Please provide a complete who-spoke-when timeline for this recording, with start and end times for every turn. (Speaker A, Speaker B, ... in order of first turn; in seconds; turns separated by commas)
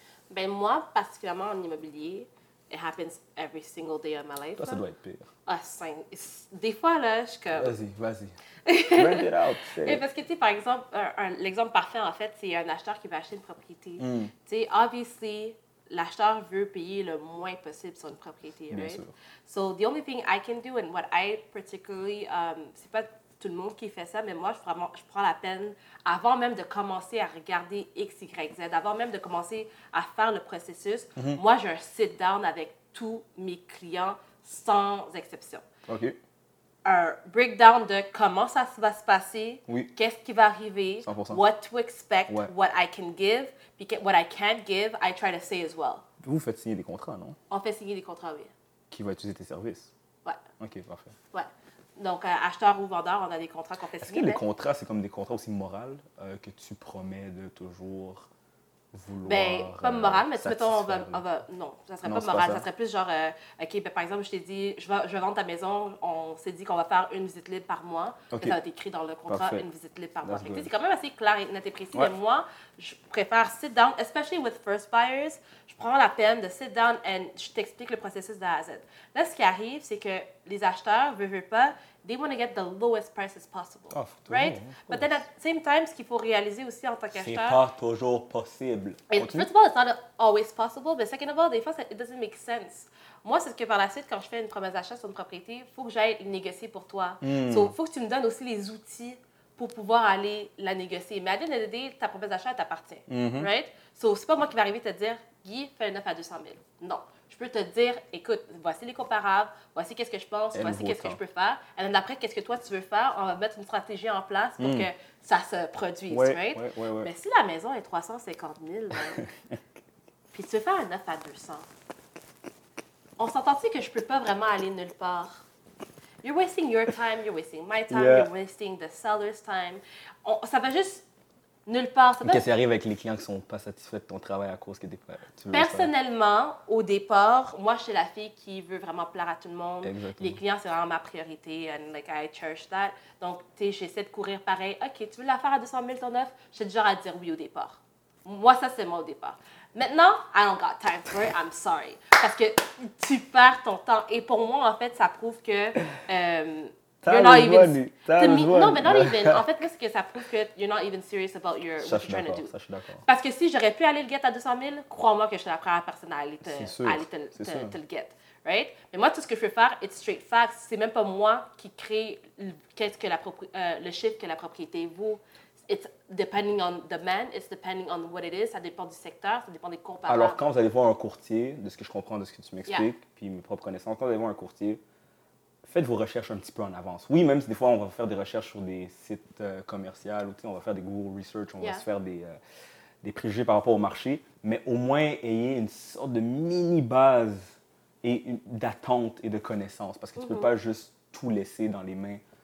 Speaker A: 0.3-4.8, Speaker B: 4.6-5.3, Speaker A: 5.5-7.7, Speaker B: 7.5-8.4, Speaker A: 8.7-35.6, Speaker B: 8.9-10.0, Speaker B: 14.0-14.3, Speaker B: 18.7-19.1, Speaker B: 31.1-31.4, Speaker B: 35.9-36.2, Speaker A: 36.9-46.0, Speaker B: 41.0-41.4, Speaker B: 42.3-42.5, Speaker B: 46.2-47.4, Speaker A: 47.5-48.5, Speaker B: 48.9-49.9, Speaker B: 50.6-51.1, Speaker A: 51.3-54.4, Speaker B: 54.0-58.3, Speaker B: 58.9-61.2, Speaker A: 59.2-87.6, Speaker B: 62.0-62.6, Speaker B: 68.3-68.6, Speaker B: 69.3-69.7, Speaker B: 70.2-70.7, Speaker B: 83.9-85.2, Speaker B: 87.1-89.5, Speaker A: 89.1-119.3, Speaker B: 97.2-97.7, Speaker B: 103.1-103.5, Speaker B: 110.5-111.2, Speaker B: 114.6-114.9, Speaker B: 116.1-117.1, Speaker A: 120.3-121.7, Speaker A: 123.2-125.4, Speaker A: 126.2-131.0, Speaker B: 127.9-128.3, Speaker A: 131.7-132.4, Speaker B: 132.2-135.9, Speaker A: 135.5-162.5, Speaker B: 139.8-140.4, Speaker B: 157.0-159.6, Speaker B: 161.8-163.0, Speaker A: 163.0-180.4, Speaker B: 166.4-167.8, Speaker B: 180.1-184.8, Speaker B: 185.6-192.4, Speaker B: 193.0-202.2, Speaker A: 200.2-200.5